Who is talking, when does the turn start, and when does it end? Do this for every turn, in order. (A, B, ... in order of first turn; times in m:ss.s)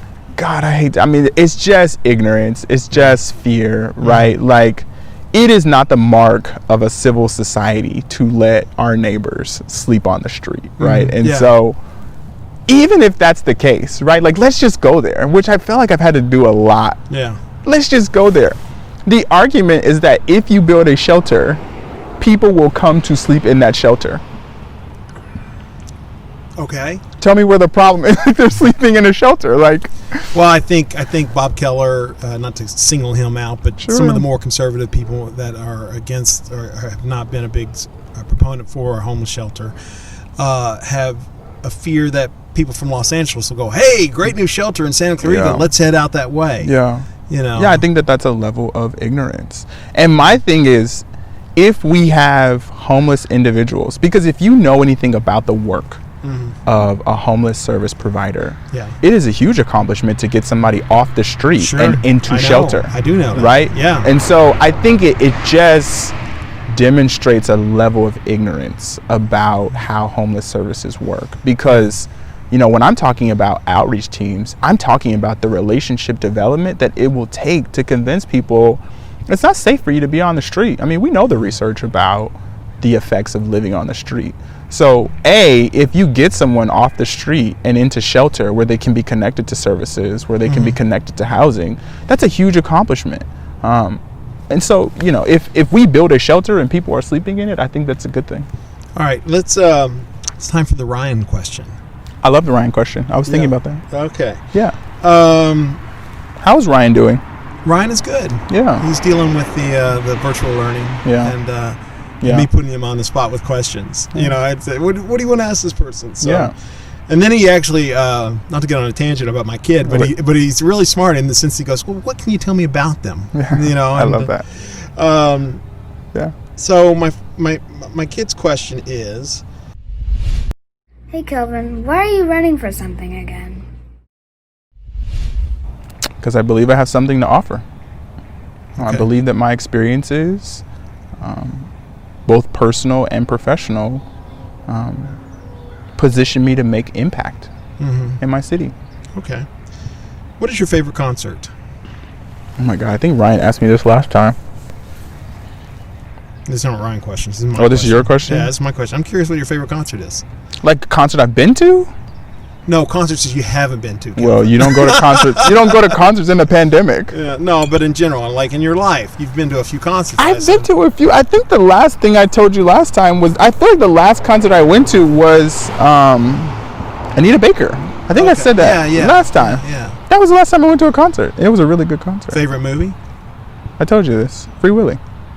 0:00.4-0:11.8 A
0:04.0-0:04.3 B
0:10.8-0:11.5 B
0:12.7-0:17.0 A
0:17.1-0:17.4 B
0:17.6-0:21.6 A
0:22.2-0:24.2 A
0:26.6-0:27.0 B
0:27.2-0:30.3 A
0:30.3-0:39.8 B
0:33.8-0:34.2 A
0:40.4-0:46.7 B
0:45.2-0:45.7 A
0:46.6-0:51.0 A
0:47.3-0:47.8 B
0:51.6-0:56.0 A
0:56.2-0:56.6 B
0:56.6-1:06.1 A
0:58.7-0:59.0 B
1:01.6-1:04.1 B
1:06.7-1:38.5 A
1:30.4-1:30.8 B
1:38.9-1:41.8 B
1:42.2-1:43.8 A
1:43.2-1:44.4 B
1:45.0-1:45.8 B
1:46.4-1:47.2 A
1:47.6-1:56.5 B
1:48.5-1:48.8 A
1:51.0-1:51.3 A
1:52.2-1:52.5 A
1:56.2-1:56.5 A
1:57.1-2:05.6 B
2:03.3-2:04.4 A
2:06.6-2:09.4 B
2:11.1-2:13.6 C
2:16.2-2:17.6 A
2:18.8-2:19.1 B
2:18.8-2:20.6 A
2:21.2-2:21.7 A
2:22.3-2:24.0 A
2:24.7-2:25.2 A
2:26.0-2:27.5 A
2:27.8-2:28.2 B
2:28.2-2:28.7 A
2:29.1-2:29.5 B
2:30.4-2:31.5 B
2:32.6-2:34.4 A
2:36.5-2:40.2 B
2:37.6-2:38.5 A
2:40.6-2:41.9 A
2:42.6-2:46.0 B
2:44.2-2:47.1 A
2:47.1-2:50.7 B
2:50.2-2:56.6 A
2:57.1-3:02.4 A
2:58.1-3:00.0 B
3:02.3-3:03.0 B
3:03.8-3:05.0 A